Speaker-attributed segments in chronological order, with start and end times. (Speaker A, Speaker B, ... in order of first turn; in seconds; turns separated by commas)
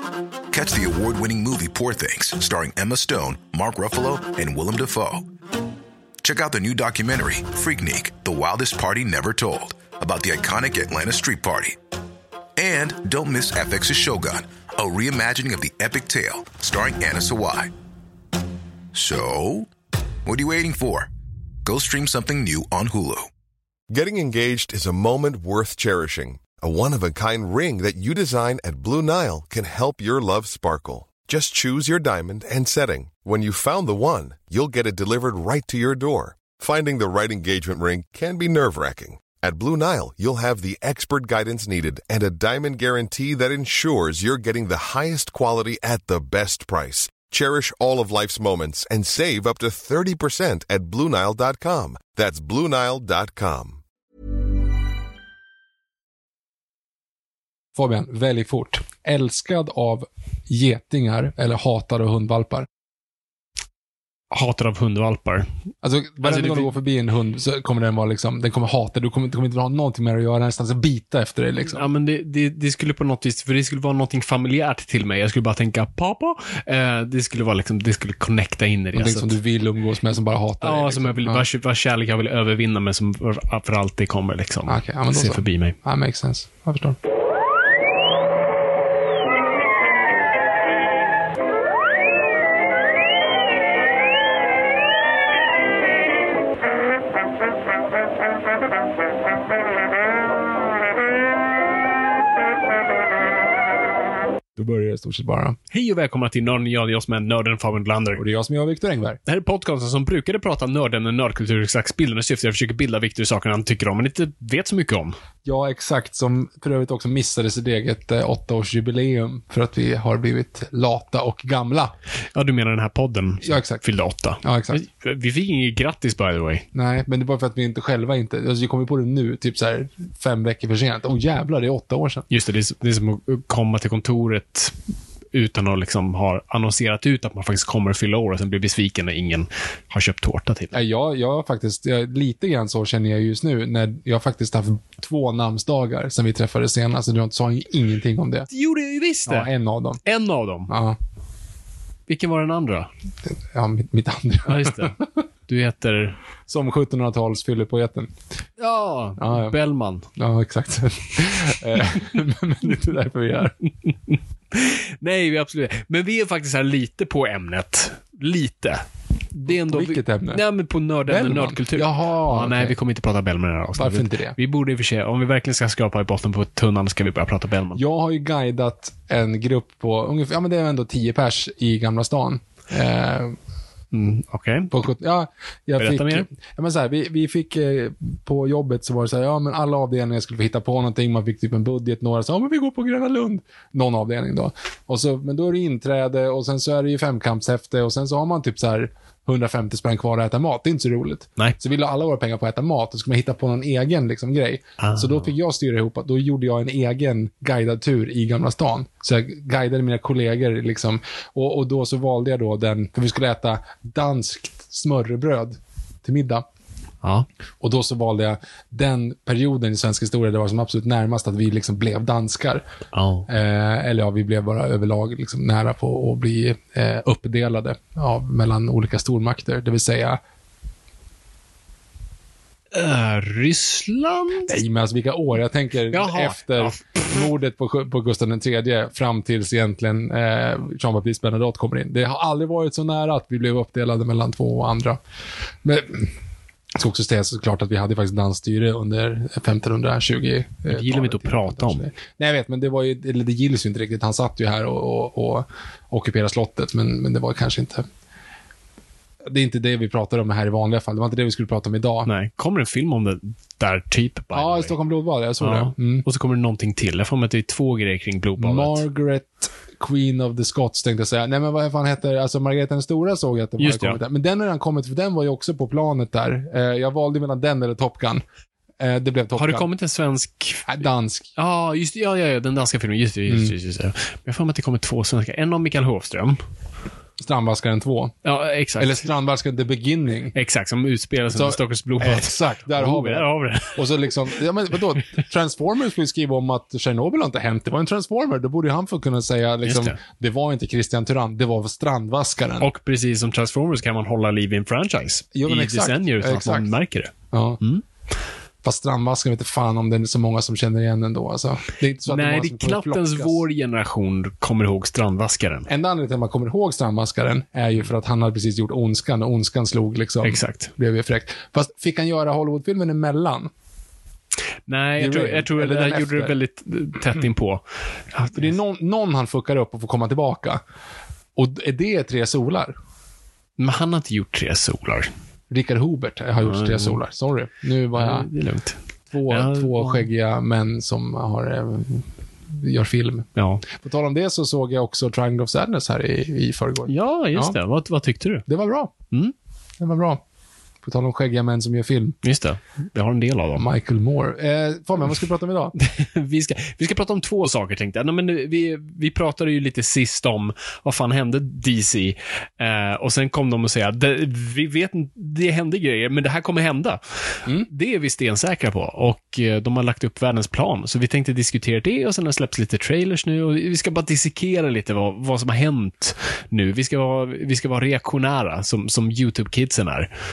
Speaker A: 0.5-5.2, Speaker A: 6.2-11.8, Speaker A: 12.6-17.7, Speaker A: 18.9-19.7, Speaker A: 20.2-21.1, Speaker A: 21.6-23.3, Speaker B: 23.9-53.8, Speaker C: 57.7-62.7, Speaker D: 64.3-65.5, Speaker C: 65.8-71.8, Speaker D: 66.2-66.7, Speaker D: 71.7-79.3, Speaker C: 78.9-81.5, Speaker D: 80.6-85.8, Speaker C: 84.7-87.0, Speaker C: 104.5-105.6, Speaker D: 105.7-108.2, Speaker C: 108.2-109.2, Speaker D: 109.2-115.2, Speaker C: 115.4-121.9, Speaker D: 122.3-126.7, Speaker C: 123.4-123.8, Speaker C: 124.4-124.8, Speaker C: 126.7-132.3, Speaker D: 132.3-134.7, Speaker D: 135.3-140.8, Speaker C: 140.7-148.5, Speaker D: 148.5-149.5, Speaker C: 149.2-150.0, Speaker D: 150.0-150.7, Speaker C: 150.7-151.0, Speaker D: 152.1-152.9, Speaker C: 153.3-155.0, Speaker D: 154.4-154.9, Speaker D: 155.5-156.2, Speaker C: 156.5-158.1, Speaker D: 158.6-160.1, Speaker C: 159.2-159.6, Speaker C: 160.2-163.5, Speaker D: 164.5-177.8, Speaker C: 169.4-170.4, Speaker C: 171.1-172.8, Speaker C: 173.8-174.4, Speaker C: 177.7-183.4, Speaker D: 183.9-184.7, Speaker C: 184.7-216.4, Speaker D: 185.8-186.2, Speaker D: 204.8-205.2, Speaker D: 217.0-217.3, Speaker C: 217.6-222.6, Speaker D: 222.9-223.3, Speaker C: 223.3-230.2, Speaker D: 232.7-234.5, Speaker C: 234.5-245.0, Speaker D: 235.9-237.2, Speaker C: 245.6-246.1, Speaker C: 246.7-257.9, Speaker D: 250.7-251.8, Speaker C: 259.2-262.1, Speaker D: 262.0-264.7, Speaker C: 264.3-266.0, Speaker D: 265.4-268.8, Speaker C: 268.4-278.2, Speaker D: 273.6-274.0, Speaker C: 278.8-279.6, Speaker D: 279.4-280.8, Speaker C: 280.6-281.3, Speaker D: 281.4-286.4, Speaker C: 283.3-283.5, Speaker C: 287.2-288.1, Speaker D: 288.2-289.1, Speaker C: 288.8-290.4, Speaker D: 290.3-294.1, Speaker C: 291.3-302.7, Speaker D: 299.6-299.9, Speaker D: 302.6-307.8, Speaker C: 305.3-306.7, Speaker C: 307.3-307.6, Speaker C: 308.6-313.4, Speaker D: 312.1-315.7, Speaker C: 315.7-323.5, Speaker D: 320.2-320.7, Speaker D: 324.7-327.6, Speaker C: 325.0-326.3, Speaker D: 328.1-328.5, Speaker C: 328.3-330.6, Speaker C: 331.3-332.7, Speaker D: 333.6-335.1, Speaker C: 335.5-338.3, Speaker D: 336.4-337.0, Speaker D: 337.9-338.8, Speaker C: 339.1-347.6, Speaker D: 339.3-340.1, Speaker D: 343.4-343.6, Speaker D: 346.9-348.4, Speaker C: 348.4-348.9, Speaker C: 349.8-350.2, Speaker C: 350.8-352.2, Speaker D: 352.2-353.6, Speaker C: 353.6-355.7, Speaker D: 355.8-380.1